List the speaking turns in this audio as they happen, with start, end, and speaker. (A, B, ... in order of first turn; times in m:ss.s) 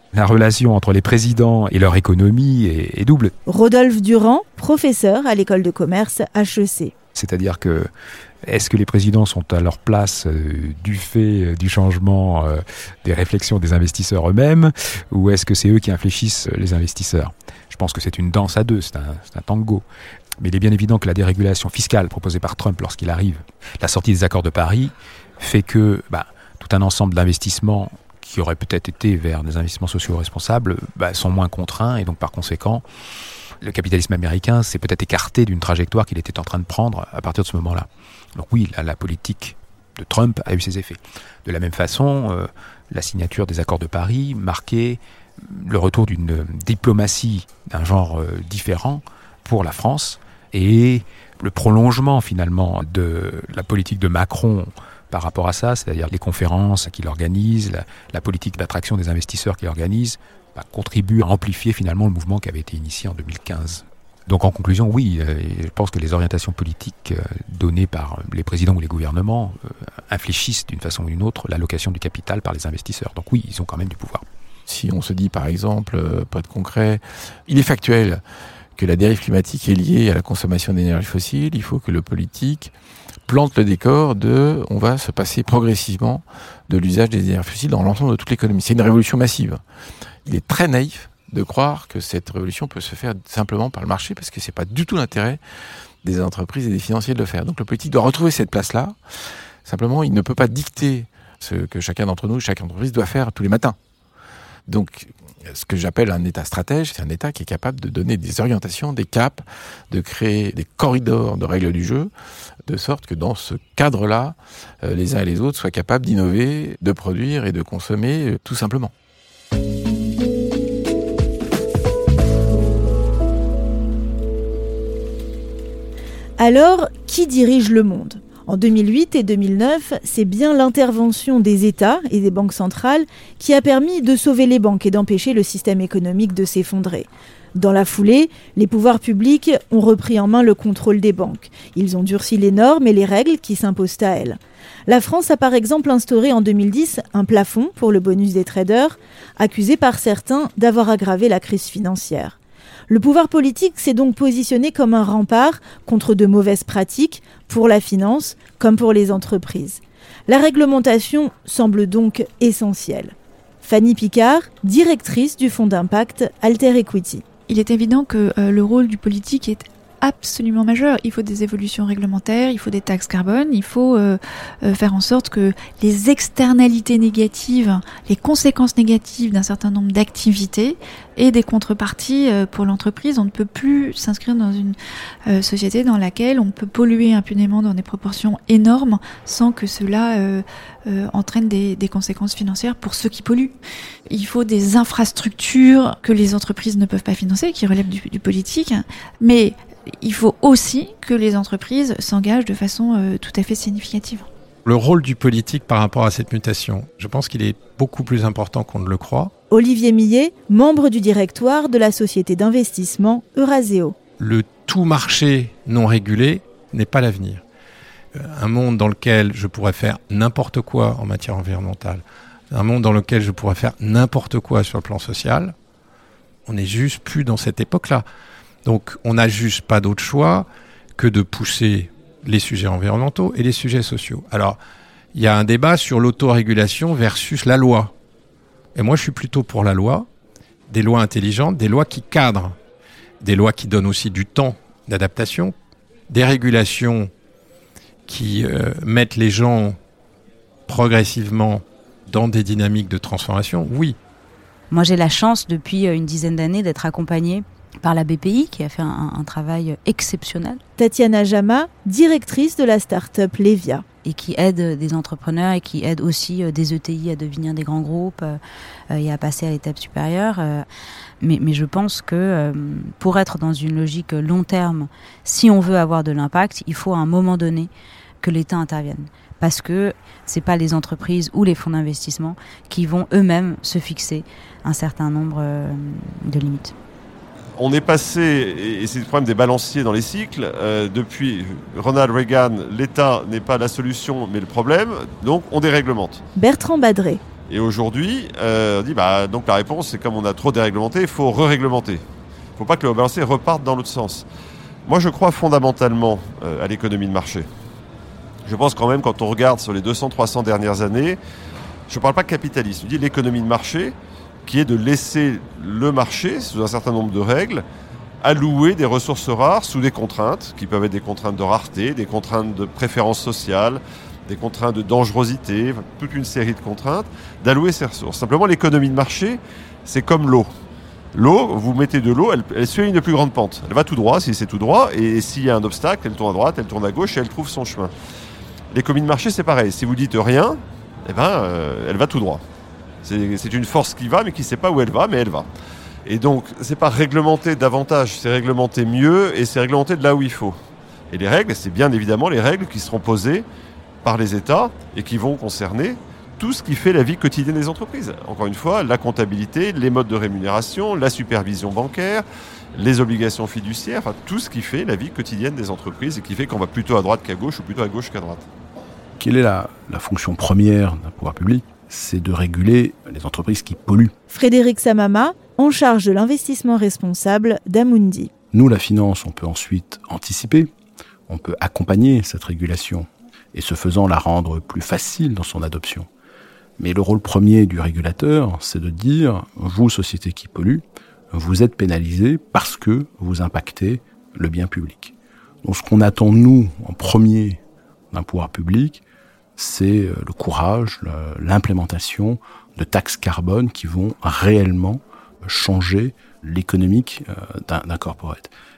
0:00.1-0:03.3 A
0:03.4-0:06.9 B
0:07.1-0:07.9 A
0:08.4-0:19.8 A
0:20.4-0:32.8 A
0:33.6-1:14.2 A
1:14.7-1:18.2 C
1:18.8-1:22.7 C
1:23.3-1:29.6 C
1:30.2-1:35.4 C
1:36.0-1:39.0 C
1:39.6-1:43.8 C
1:44.7-1:52.1 C
1:52.6-1:58.9 C
2:06.4-2:32.4 B
2:32.9-2:47.2 B
2:47.5-3:13.5 D
3:14.1-3:24.3 D
3:24.6-3:29.3 E
3:29.5-3:34.0 B
3:34.2-3:37.4 E
3:38.1-3:45.5 E
3:46.5-3:48.0 E
3:48.6-3:50.4 E
3:51.0-3:54.6 E
3:55.1-3:57.9 E
3:58.7-4:00.1 E
4:00.7-4:02.5 E
4:03.2-4:05.5 E
4:06.1-4:07.1 E
4:08.1-4:09.8 E
4:10.7-4:14.0 E
4:14.7-4:20.6 F
4:20.8-4:23.8 B
4:24.0-4:28.4 F
4:28.9-4:30.6 F
4:31.2-4:37.7 F
4:38.2-4:46.7 F
4:47.6-4:56.2 G
4:56.4-4:57.2 B
4:57.5-5:02.0 G
5:02.6-5:04.2 G
5:04.8-5:07.5 G
5:08.4-5:11.2 G
5:11.9-5:17.6 G
5:18.2-5:30.5 G
5:31.1-5:37.9 G
5:38.7-5:42.4 G
5:43.0-5:45.5 G
5:46.0-5:50.6 G
5:51.1-5:53.4 G
5:54.0-6:08.4 G
6:09.2-6:14.1 H
6:14.3-6:18.3 B
6:18.5-6:20.7 H
6:21.3-6:26.1 H
6:26.8-6:37.6 H
6:38.1-6:39.0 H
6:39.6-6:48.5 H